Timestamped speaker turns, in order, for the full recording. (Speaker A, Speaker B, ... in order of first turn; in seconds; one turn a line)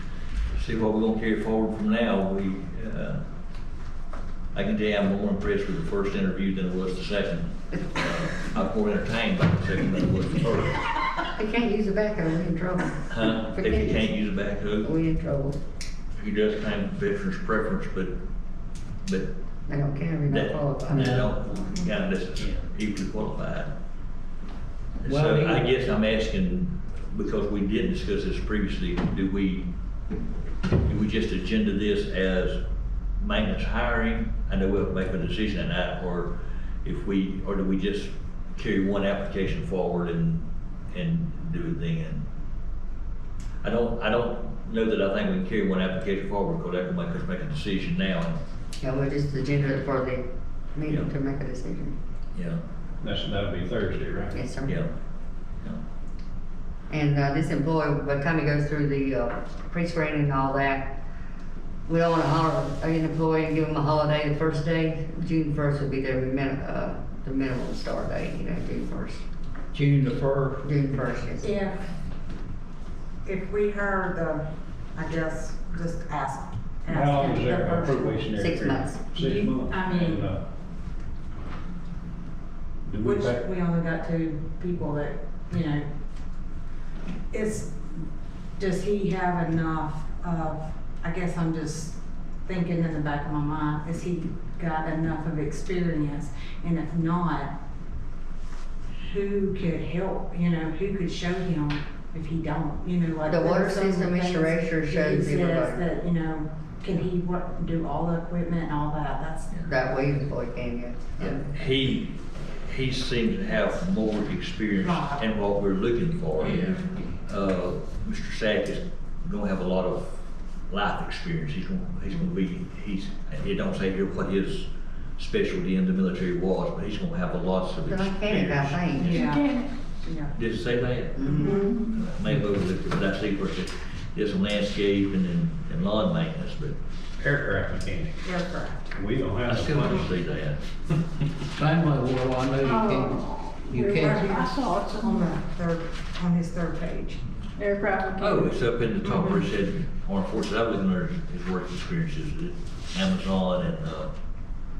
Speaker A: 0.5-3.2
Speaker A: 4.5-10.8
Speaker B: 11.3-14.0
Speaker A: 13.1-14.9
Speaker B: 14.8-15.6
Speaker A: 16.2-18.1
Speaker A: 19.0-19.3
Speaker B: 19.7-21.2
Speaker A: 20.3-23.7
Speaker C: 20.9-21.3
Speaker A: 25.0-29.7
Speaker C: 25.0-25.6
Speaker A: 30.9-32.6
Speaker A: 33.2-36.3
Speaker A: 36.8-42.2
Speaker A: 43.6-48.4
Speaker B: 48.8-51.9
Speaker A: 52.3-52.6
Speaker D: 53.0-54.4
Speaker B: 54.3-54.8
Speaker B: 56.9-60.9
Speaker B: 61.9-69.2
Speaker C: 69.7-70.6
Speaker B: 70.6-71.5
Speaker E: 71.4-71.8
Speaker E: 73.2-74.4
Speaker E: 74.9-78.4
Speaker D: 76.9-80.4
Speaker B: 78.4-79.0
Speaker E: 79.1-80.2
Speaker D: 82.8-83.4
Speaker E: 83.0-85.8
Speaker E: 87.3-87.8
Speaker E: 88.6-97.5
Speaker E: 99.0-109.5
Speaker B: 103.2-105.8
Speaker B: 109.6-111.5
Speaker A: 111.2-120.0
Speaker E: 114.8-115.2
Speaker E: 116.5-116.9
Speaker A: 120.7-124.7
Speaker A: 125.2-129.2
Speaker B: 127.9-129.2
Speaker E: 129.0-129.4
Speaker F: 129.0-129.7
Speaker E: 130.0-130.3
Speaker A: 130.3-136.8
Speaker B: 131.2-131.7
Speaker E: 131.2-131.7
Speaker F: 131.4-131.9
Speaker D: 137.2-138.2
Speaker E: 138.2-138.9
Speaker D: 138.9-140.1
Speaker A: 139.4-140.6
Speaker C: 141.6-144.2
Speaker F: 142.6-145.4
Speaker E: 143.9-147.2
Speaker F: 147.6-148.6
Speaker A: 148.2-154.1
Speaker E: 149.0-149.4